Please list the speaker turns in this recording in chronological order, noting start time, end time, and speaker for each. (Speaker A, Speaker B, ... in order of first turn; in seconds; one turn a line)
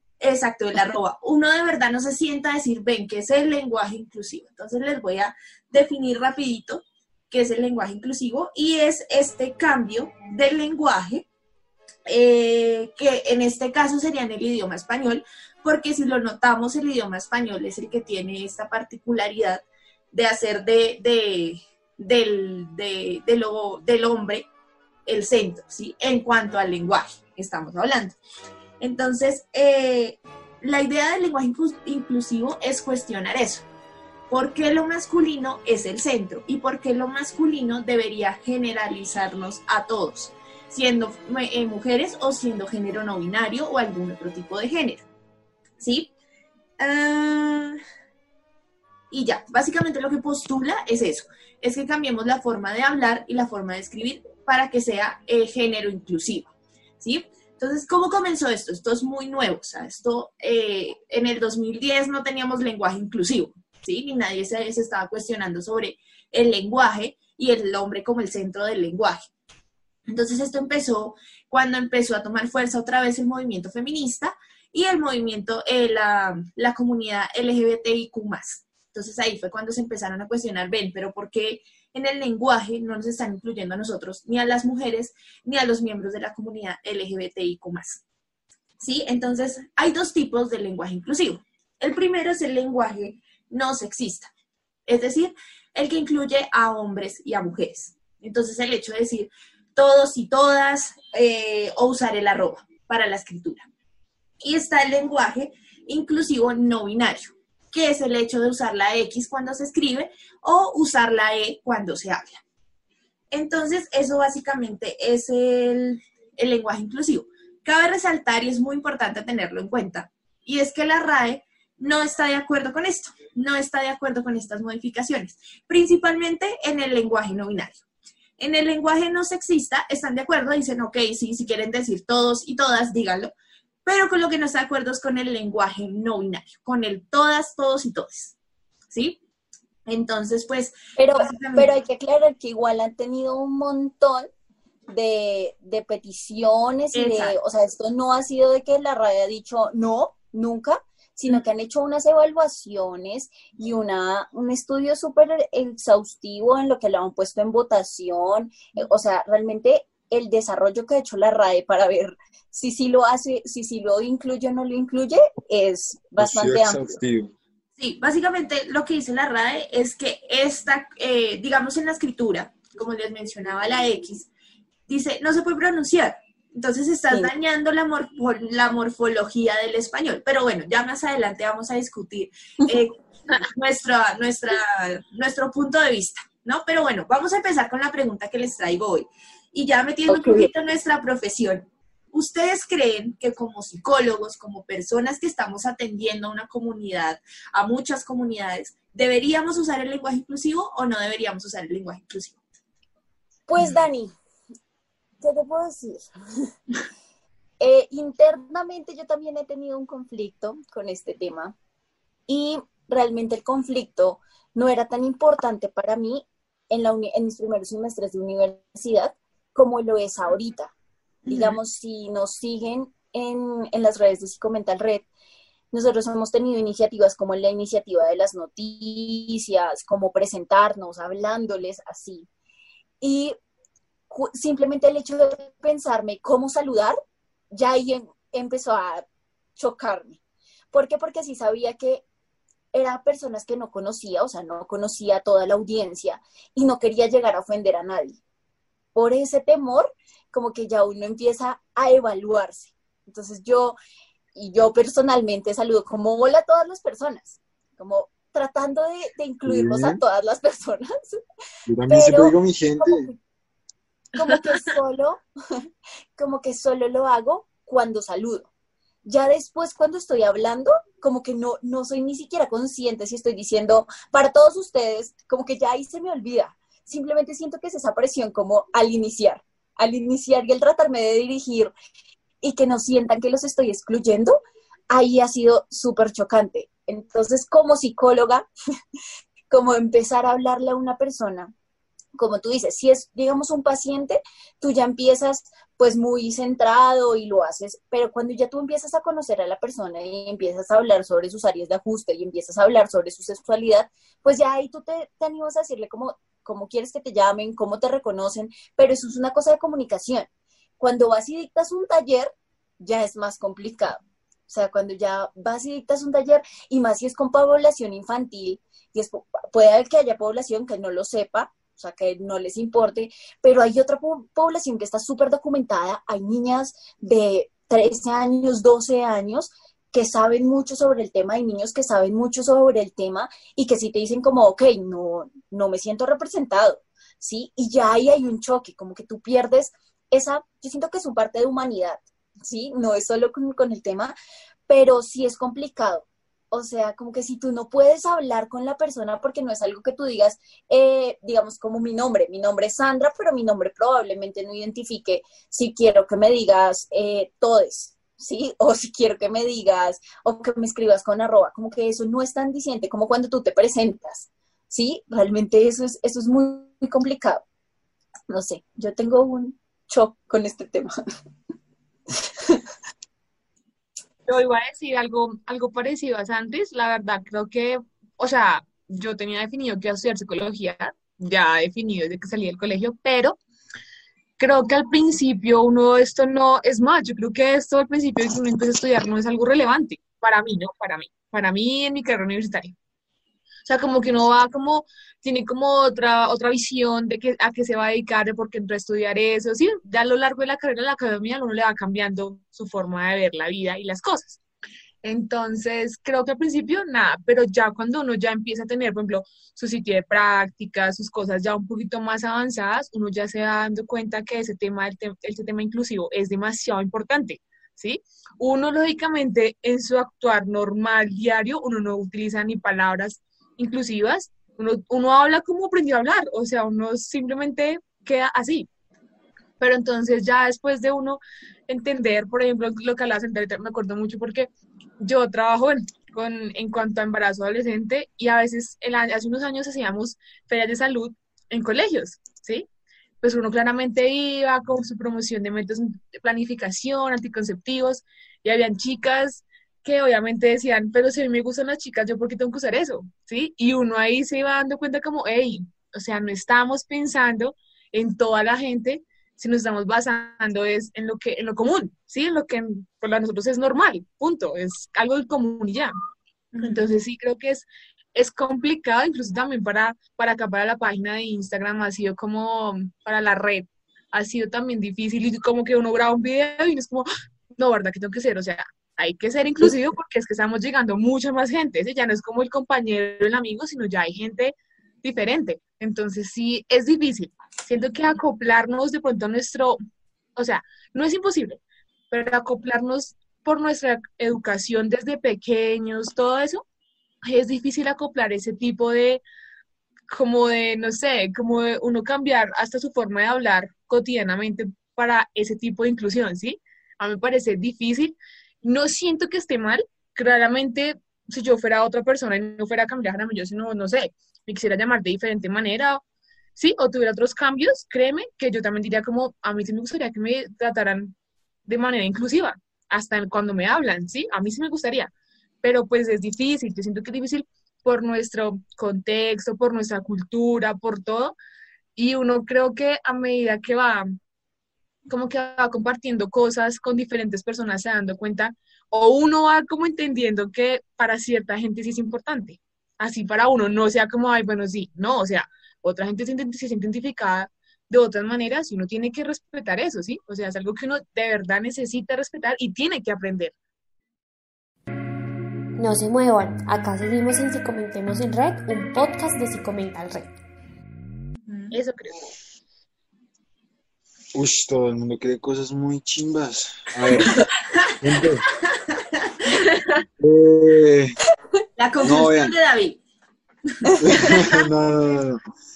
Speaker A: 0.2-11.2
Speaker A: 12.1-24.5
Speaker A: 25.1-28.2
Speaker A: 28.8-33.6
Speaker A: 34.3-45.0
Speaker A: 45.8-46.1
Speaker A: 46.8-47.8
Speaker A: 49.1-69.3
Speaker A: 70.1-88.0
Speaker A: 88.8-94.3
Speaker A: 94.9-103.7
Speaker A: 104.4-112.4
Speaker A: 113.3-127.8
Speaker A: 128.4-133.3
Speaker A: 133.8-138.3
Speaker A: 138.9-139.2
Speaker A: 139.9-141.7
Speaker B: 141.0-144.3
Speaker B: 144.9-166.9
Speaker A: 146.9-147.3
Speaker C: 166.2-167.3
Speaker A: 167.8-174.3
Speaker A: 174.9-202.4
Speaker B: 190.1-190.5
Speaker B: 203.5-204.1
Speaker B: 205.2-206.1
Speaker B: 207.6-211.5
Speaker B: 212.3-220.7
Speaker A: 221.2-221.6
Speaker B: 221.3-225.1
Speaker B: 225.7-232.3
Speaker B: 233.0-233.3
Speaker B: 234.1-237.0
Speaker B: 237.5-239.0
Speaker B: 239.6-240.2
Speaker B: 240.7-242.0
Speaker B: 242.7-248.2
Speaker B: 248.9-253.8
Speaker B: 254.3-261.2
Speaker C: 259.4-260.0
Speaker C: 261.7-263.1
Speaker B: 261.9-263.1
Speaker B: 264.1-265.6
Speaker B: 266.2-268.5
Speaker B: 269.0-281.7
Speaker B: 282.4-284.4
Speaker B: 284.9-288.5
Speaker B: 289.5-291.5
Speaker B: 292.1-310.3
Speaker B: 310.8-344.1
Speaker B: 344.7-367.4
Speaker B: 368.3-370.9
Speaker B: 372.2-372.6
Speaker D: 374.3-383.4
Speaker D: 384.4-392.7
Speaker D: 393.6-404.4
Speaker D: 405.0-428.7
Speaker D: 429.6-434.5
Speaker D: 435.0-442.6
Speaker D: 443.2-465.9
Speaker A: 466.5-466.8
Speaker D: 466.6-489.8
Speaker D: 490.4-491.6
Speaker D: 492.1-496.6
Speaker D: 497.2-499.2
Speaker D: 500.1-516.0
Speaker D: 516.5-521.1
Speaker D: 521.6-525.1
Speaker D: 525.6-531.3
Speaker D: 532.0-534.0
Speaker D: 535.1-553.5
Speaker E: 555.8-560.3
Speaker A: 561.5-561.7
Speaker D: 561.7-562.3
Speaker C: 564.3-567.4
Speaker C: 568.0-568.4
Speaker A: 568.7-569.6
Speaker C: 570.2-571.1
Speaker A: 571.8-573.0
Speaker C: 572.0-572.5
Speaker A: 573.9-574.4
Speaker C: 574.0-575.4